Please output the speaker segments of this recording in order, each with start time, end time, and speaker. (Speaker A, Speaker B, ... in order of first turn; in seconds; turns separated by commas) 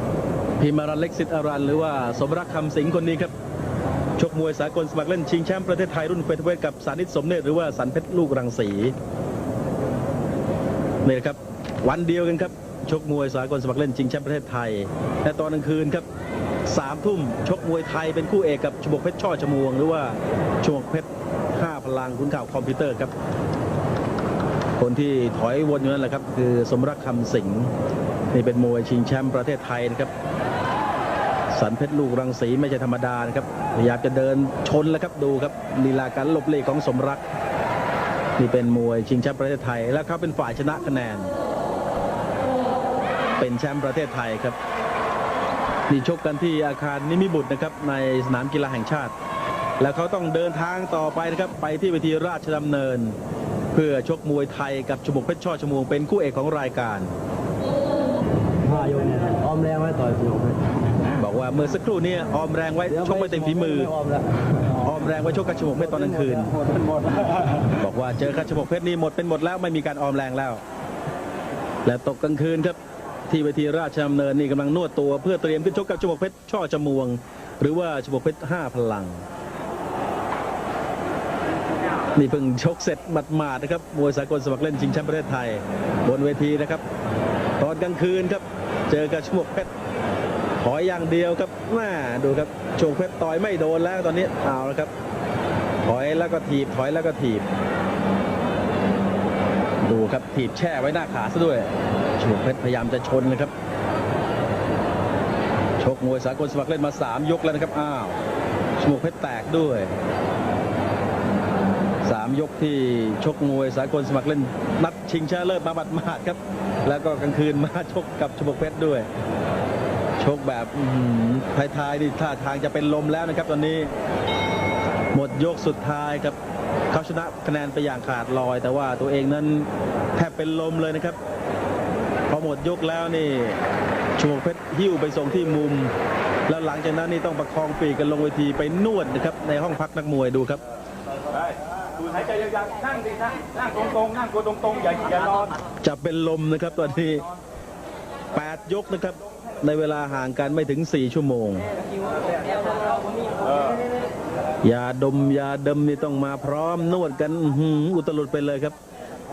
Speaker A: 0.6-3.3, Speaker A: 4.2-8.9, Speaker A: 11.1-16.1, Speaker A: 16.7-23.1, Speaker A: 24.8-27.7, Speaker A: 28.3-30.1, Speaker A: 31.5-37.2, Speaker A: 38.4-41.3, Speaker A: 43.4-44.6, Speaker A: 45.9-49.1, Speaker A: 49.8-53.2, Speaker A: 53.7-57.1, Speaker B: 58.6-60.8, Speaker A: 61.1-64.0, Speaker B: 63.1-64.5, Speaker A: 64.7-66.7, Speaker B: 66.8-67.3, Speaker A: 67.6-70.6, Speaker A: 71.8-79.2, Speaker A: 82.2-86.8, Speaker A: 87.6-89.7, Speaker A: 90.6-94.9, Speaker A: 95.8-97.5, Speaker A: 99.8-103.5, Speaker A: 105.8-108.2, Speaker A: 108.8-109.9, Speaker A: 112.0-119.1, Speaker A: 120.2-123.9, Speaker A: 125.1-126.4, Speaker A: 126.9-131.2, Speaker A: 132.3-133.6, Speaker A: 134.2-135.9, Speaker A: 136.5-140.6, Speaker C: 142.7-145.4, Speaker A: 145.8-147.3, Speaker A: 148.3-151.7, Speaker A: 154.6-158.8